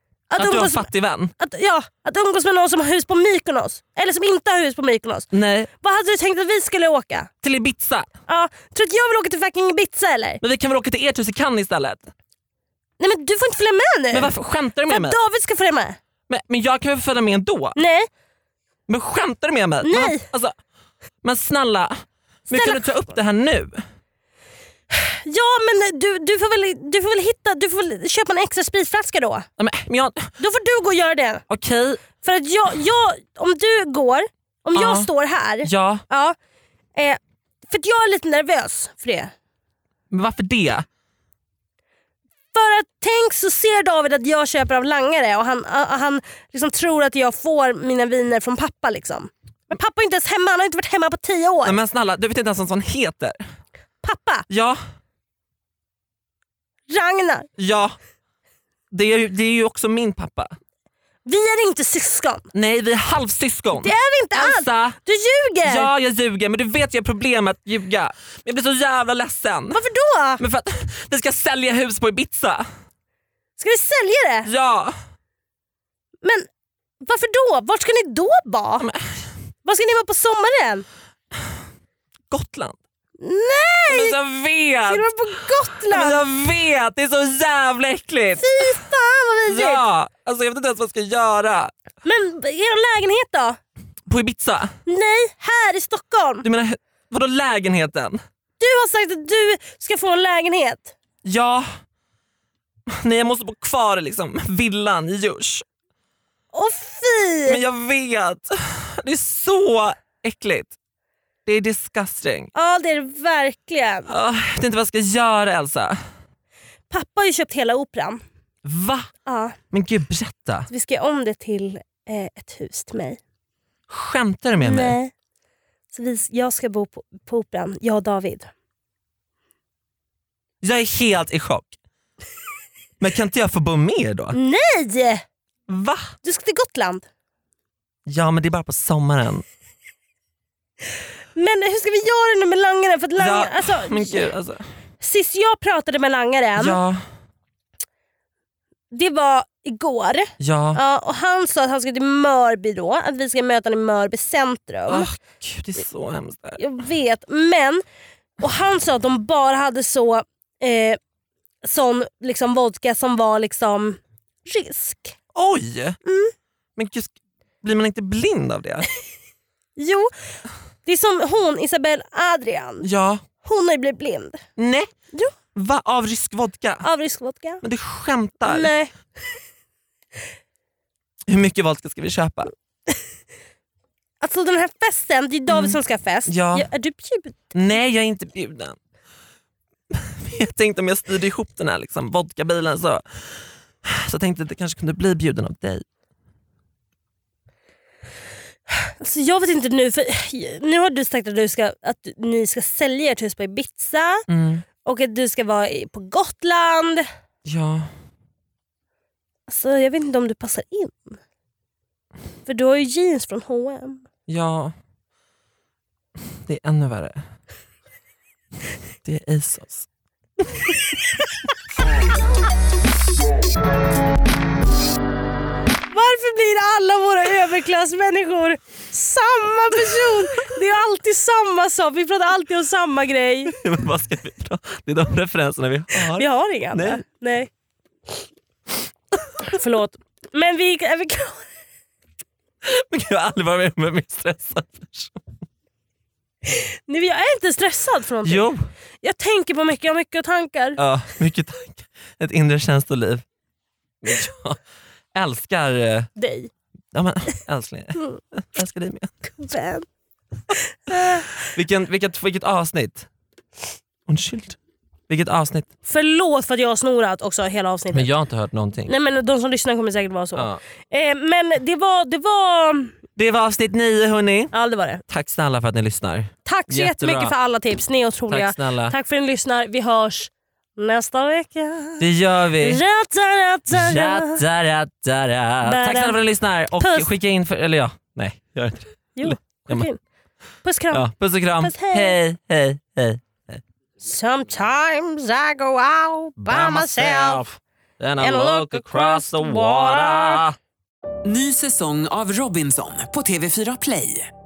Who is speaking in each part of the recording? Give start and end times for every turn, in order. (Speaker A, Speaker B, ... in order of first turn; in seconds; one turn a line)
Speaker A: 0.3-5.3
Speaker B: 0.4-1.3
Speaker B: 5.3-5.7
Speaker A: 5.8-7.3
Speaker B: 7.4-8.1
Speaker A: 8.3-10.4
Speaker B: 10.4-12.1
Speaker A: 13.0-14.3
Speaker B: 14.1-15.2
Speaker A: 14.9-16.0
Speaker B: 16.3-17.8
Speaker A: 17.8-18.1
Speaker B: 18.9-20.5
Speaker A: 19.8-20.2
Speaker B: 21.2-23.8
Speaker A: 22.5-22.8
Speaker A: 24.9-29.4
Speaker B: 29.6-30.3
Speaker A: 30.4-31.4
Speaker B: 31.5-32.0
Speaker A: 32.2-36.4
Speaker B: 34.7-35.1
Speaker B: 35.6-36.0
Speaker A: 37.0-39.3
Speaker B: 40.1-40.9
Speaker A: 42.5-51.8
Speaker B: 51.6-53.4
Speaker A: 54.0-54.5
Speaker B: 54.5-54.8
Speaker A: 56.9-57.5
Speaker B: 57.6-57.9
Speaker B: 58.9-60.5
Speaker A: 61.2-62.5
Speaker B: 62.5-65.0
Speaker A: 63.7-65.9
Speaker B: 65.6-69.8
Speaker A: 69.7-70.4
Speaker B: 70.4-72.7
Speaker A: 73.6-74.5
Speaker B: 74.5-74.9
Speaker A: 77.0-78.9
Speaker B: 78.8-79.1
Speaker A: 79.6-80.9
Speaker B: 82.3-82.8
Speaker A: 83.2-84.2
Speaker B: 83.9-85.1
Speaker A: 84.9-86.2
Speaker B: 85.9-88.8
Speaker A: 88.4-89.8
Speaker B: 89.5-91.7
Speaker A: 92.0-93.6
Speaker B: 94.1-94.7
Speaker A: 94.9-96.4
Speaker B: 96.4-98.2
Speaker A: 98.6-100.9
Speaker B: 101.2-101.7
Speaker B: 102.9-105.6
Speaker A: 106.5-107.6
Speaker B: 107.5-110.7
Speaker B: 111.5-112.5
Speaker A: 112.5-114.1
Speaker B: 114.1-116.0
Speaker A: 116.9-118.2
Speaker B: 118.6-119.1
Speaker A: 119.2-119.6
Speaker B: 119.7-120.7
Speaker A: 120.7-123.2
Speaker B: 123.9-125.0
Speaker A: 124.6-125.1
Speaker A: 125.9-128.5
Speaker B: 130.6-131.7
Speaker B: 133.0-134.4
Speaker A: 134.3-135.2
Speaker B: 135.7-136.1
Speaker A: 136.2-137.1
Speaker B: 138.1-139.4
Speaker A: 141.4-144.3
Speaker B: 143.2-144.6
Speaker A: 145.0-146.8
Speaker B: 146.6-147.0
Speaker A: 148.9-155.1
Speaker B: 150.4-150.8
Speaker B: 154.9-156.6
Speaker A: 156.6-157.8
Speaker A: 158.4-161.0
Speaker A: 161.6-165.1
Speaker B: 165.3-166.0
Speaker A: 166.1-166.3
Speaker B: 166.8-168.9
Speaker A: 169.8-170.1
Speaker A: 170.9-172.9
Speaker B: 172.8-173.2
Speaker A: 173.4-174.4
Speaker B: 174.6-174.9
Speaker B: 175.5-176.8
Speaker A: 176.8-177.6
Speaker B: 177.6-178.7
Speaker A: 178.4-178.9
Speaker B: 181.3-182.5
Speaker A: 184.2-187.5
Speaker B: 185.5-186.7
Speaker B: 187.5-188.8
Speaker B: 189.9-195.8
Speaker A: 198.7-204.2
Speaker B: 204.3-204.7
Speaker A: 204.8-207.1
Speaker B: 207.4-207.9
Speaker A: 209.5-211.2
Speaker A: 212.4-214.0
Speaker B: 214.3-214.7
Speaker B: 216.4-217.2
Speaker B: 219.1-219.9
Speaker A: 225.9-233.5
Speaker B: 233.5-237.0
Speaker A: 236.0-237.5
Speaker A: 239.4-241.5
Speaker B: 242.6-245.2
Speaker A: 246.5-248.5
Speaker B: 248.2-248.7
Speaker A: 249.0-250.8
Speaker B: 250.8-253.2
Speaker B: 254.0-254.6
Speaker B: 255.1-256.1
Speaker A: 256.2-256.5
Speaker B: 256.9-259.1
Speaker A: 259.3-259.9
Speaker A: 260.5-261.2
Speaker B: 261.0-263.1
Speaker B: 264.1-264.6
Speaker B: 265.1-265.7
Speaker A: 265.9-268.1
Speaker B: 267.9-268.9
Speaker A: 268.9-272.9
Speaker B: 273.1-274.5
Speaker A: 274.5-275.0
Speaker B: 275.1-277.3
Speaker A: 276.4-282.0
Speaker B: 278.3-278.9
Speaker B: 282.0-282.8
Speaker A: 282.6-284.4
Speaker B: 283.7-289.9
Speaker A: 285.6-286.2
Speaker A: 286.8-287.1
Speaker A: 289.2-290.0
Speaker A: 290.6-291.1
Speaker B: 290.9-293.6
Speaker A: 291.6-292.1
Speaker A: 294.0-297.4
Speaker B: 296.4-300.6
Speaker A: 298.2-300.4
Speaker C: 301.2-304.3